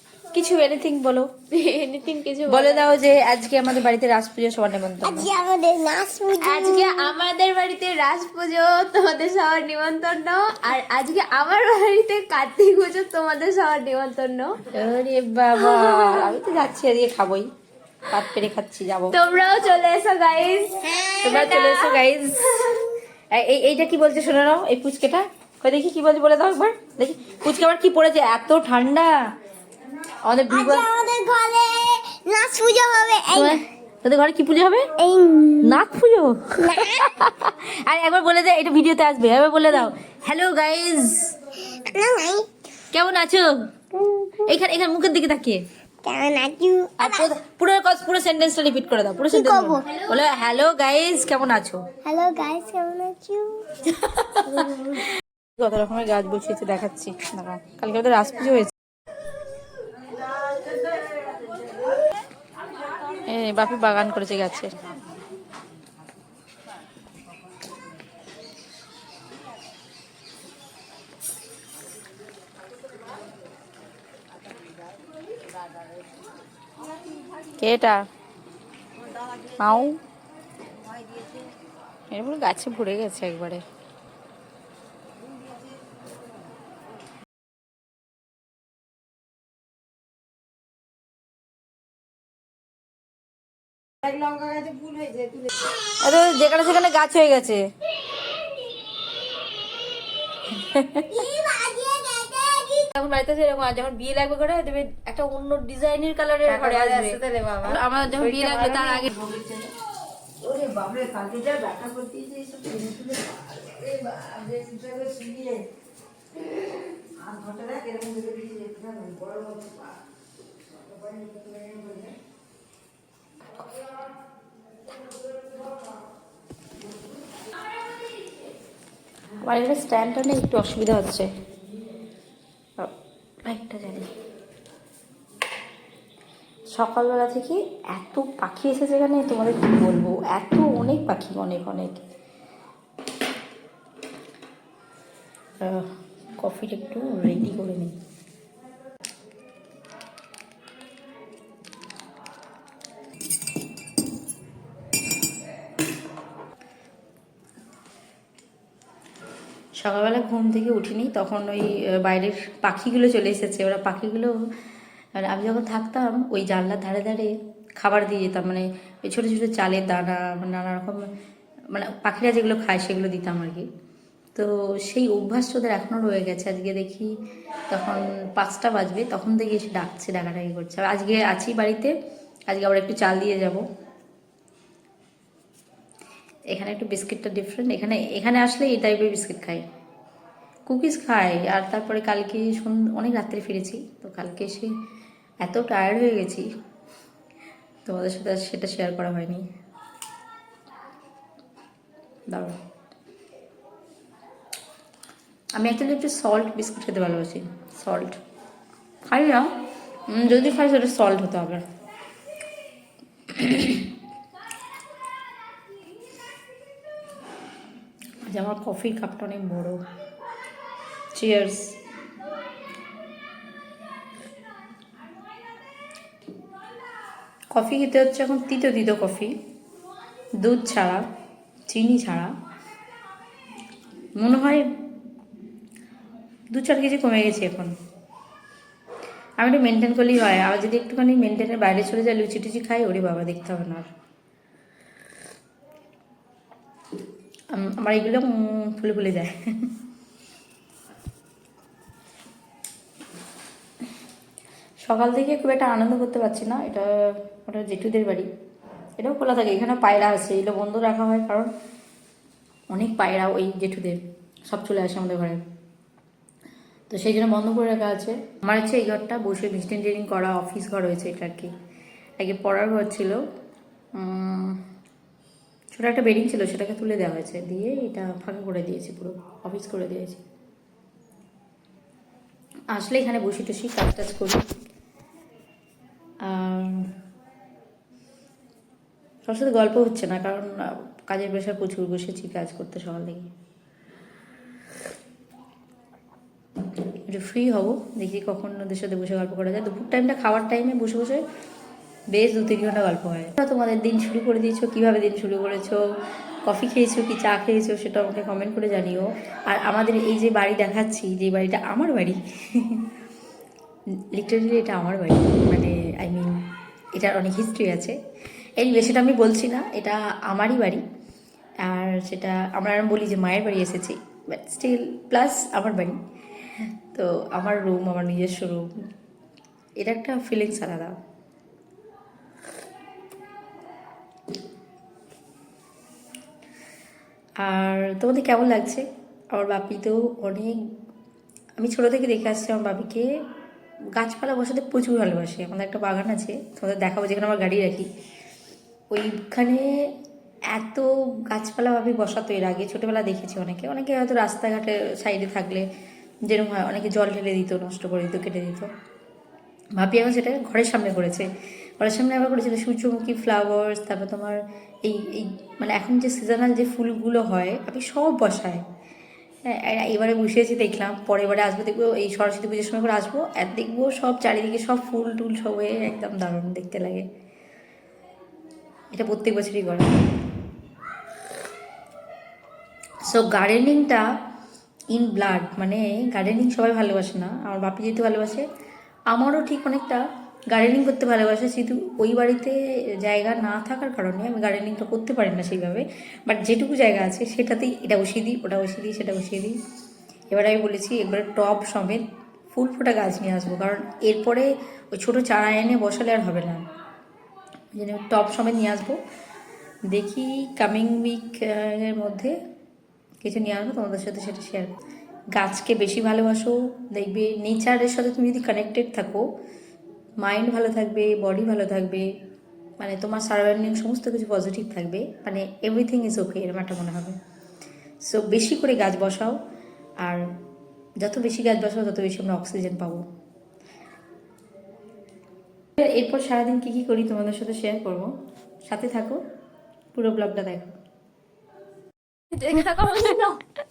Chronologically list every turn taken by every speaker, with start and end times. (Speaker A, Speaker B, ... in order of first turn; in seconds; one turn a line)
Speaker A: 0.3-1.3
Speaker B: 1.5-2.9
Speaker A: 2.5-5.3
Speaker C: 5.0-7.1
Speaker B: 6.3-14.6
Speaker A: 14.7-17.5
Speaker B: 15.6-16.3
Speaker A: 18.1-19.2
Speaker B: 19.1-22.9
Speaker C: 20.9-21.3
Speaker A: 21.2-22.8
Speaker A: 23.3-29.2
Speaker A: 30.2-30.9
Speaker C: 30.5-33.6
Speaker A: 33.3-34.9
Speaker C: 35.0-35.8
Speaker A: 35.6-41.4
Speaker C: 36.6-37.2
Speaker C: 41.8-42.5
Speaker A: 42.9-43.7
Speaker C: 43.9-44.5
Speaker A: 44.5-45.6
Speaker C: 46.0-47.3
Speaker A: 47.0-51.9
Speaker C: 49.3-49.9
Speaker C: 52.0-53.7
Speaker A: 54.0-58.7
Speaker D: 60.5-61.7
Speaker A: 63.3-64.8
Speaker A: 77.6-78.0
Speaker A: 79.6-80.0
Speaker A: 82.1-83.6
Speaker D: 94.1-95.5
Speaker A: 96.0-97.7
Speaker A: 100.5-101.1
Speaker C: 101.1-102.9
Speaker A: 102.9-109.1
Speaker D: 106.7-107.6
Speaker D: 108.3-109.7
Speaker D: 110.4-115.6
Speaker D: 117.2-119.9
Speaker D: 121.1-122.1
Speaker A: 129.4-131.3
Speaker A: 133.5-134.1
Speaker A: 136.7-142.1
Speaker A: 145.6-148.0
Speaker A: 159.8-164.3
Speaker A: 165.2-171.0
Speaker A: 171.7-173.7
Speaker A: 174.3-177.1
Speaker A: 177.7-181.9
Speaker A: 182.5-183.6
Speaker A: 186.5-189.6
Speaker A: 190.7-194.7
Speaker A: 195.4-196.4
Speaker A: 197.8-199.5
Speaker A: 202.3-202.6
Speaker A: 205.6-208.2
Speaker A: 209.1-209.6
Speaker A: 210.1-211.6
Speaker A: 213.3-213.8
Speaker A: 218.3-219.8
Speaker A: 221.1-221.8
Speaker A: 227.5-229.3
Speaker A: 230.4-231.0
Speaker A: 231.7-232.3
Speaker A: 234.2-234.7
Speaker A: 236.5-237.7
Speaker A: 239.4-243.9
Speaker A: 247.5-249.7
Speaker A: 254.8-258.3
Speaker A: 259.0-261.5
Speaker A: 262.7-265.4
Speaker A: 266.9-271.5
Speaker A: 272.2-273.2
Speaker A: 274.0-274.6
Speaker A: 275.7-280.2
Speaker A: 282.7-284.4
Speaker A: 286.2-286.9
Speaker A: 289.3-293.3
Speaker A: 297.1-301.2
Speaker A: 302.1-305.8
Speaker A: 306.4-312.9
Speaker A: 314.1-316.4
Speaker A: 316.9-318.0
Speaker A: 318.6-320.8
Speaker A: 321.6-326.0
Speaker A: 326.8-328.7
Speaker A: 329.8-331.0
Speaker A: 337.4-340.6
Speaker A: 341.6-343.1
Speaker A: 343.9-347.9
Speaker A: 348.9-349.9
Speaker A: 350.5-355.7
Speaker A: 356.2-358.7
Speaker A: 359.8-361.3
Speaker A: 361.8-368.6
Speaker A: 369.4-377.1
Speaker A: 378.9-380.0
Speaker A: 383.1-384.0
Speaker A: 384.9-388.4
Speaker A: 389.1-399.6
Speaker A: 400.3-406.7
Speaker A: 407.7-409.0
Speaker A: 409.9-412.3
Speaker A: 413.2-414.8
Speaker A: 415.4-419.2
Speaker A: 420.2-422.1
Speaker A: 422.8-427.2
Speaker A: 428.0-429.4
Speaker A: 431.0-433.0
Speaker A: 435.8-438.1
Speaker A: 438.6-439.2
Speaker A: 439.9-440.8
Speaker B: 442.3-443.4